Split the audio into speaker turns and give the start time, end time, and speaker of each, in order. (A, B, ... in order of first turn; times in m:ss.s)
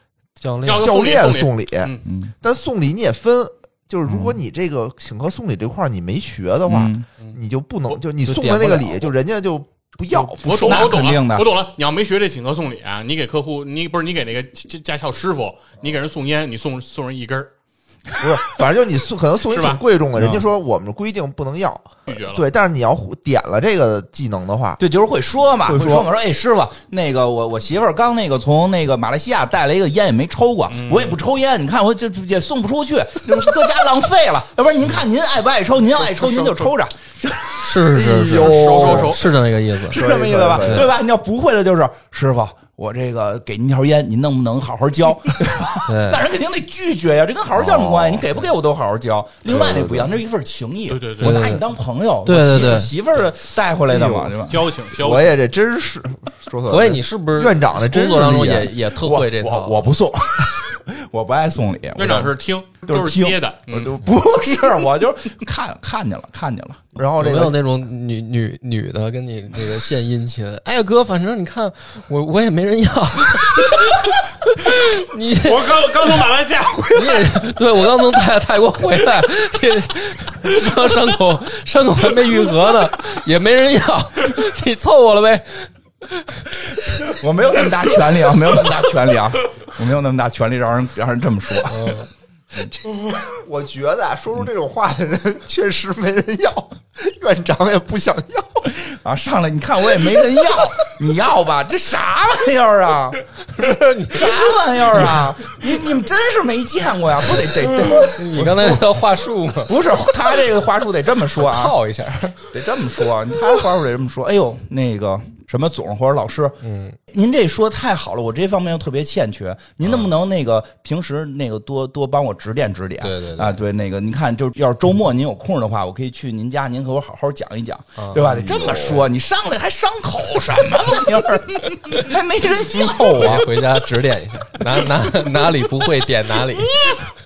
0:00.4-0:00.9 A
0:00.6-0:02.0 B
0:00.7-0:11.0 C
0:02.0-0:02.3 D
0:04.0-0:04.4 D
0:06.6-0:07.0 D
0:08.2-0:09.1 A
0:10.4-0:17.5 B
0:10.6-0:11.5 D
0:18.2-0:24.8 C
0:19.4-0:19.8 B
0:20.2-0:20.4 D
0:22.1-0:22.4 B
0:24.8-0:37.9 D
0:25.6-0:26.1 C
0:30.7-0:31.2 B
0:36.0-0:36.7 C
0:37.6-0:40.0 A
0:37.8-0:39.3 C
0:38.3-0:39.3 B
0:39.9-0:40.9 C
0:39.9-0:54.6 D
0:40.6-0:40.9 A
0:45.8-0:46.2 A
0:47.6-0:48.2 C
0:49.5-0:50.1 C
0:50.9-0:51.5 B
0:51.2-0:51.6 A
0:52.2-0:52.9 A
0:53.9-0:54.3 C
0:54.5-0:55.4 B
0:54.9-0:58.7 C
0:56.7-0:59.8 A
0:58.8-1:06.8 D
1:02.0-1:03.9 B
1:06.9-1:07.6 C
1:07.2-1:15.8 A
1:15.3-1:17.5 B
1:16.9-1:27.0 A
1:26.6-1:32.7 D
1:31.7-1:32.1 A
1:32.6-1:38.7 C
1:38.6-1:43.2 D
1:43.4-1:45.2 A
1:44.1-1:48.8 D
1:48.0-1:49.7 A
1:49.6-1:51.8 D
1:51.3-1:52.4 A
1:52.4-1:56.6 D
1:56.6-1:57.0 A
1:57.1-2:13.7 D
1:59.8-2:00.1 A
2:03.0-2:03.6 A
2:08.0-2:08.2 A
2:08.2-2:09.0 C
2:13.1-2:16.9 A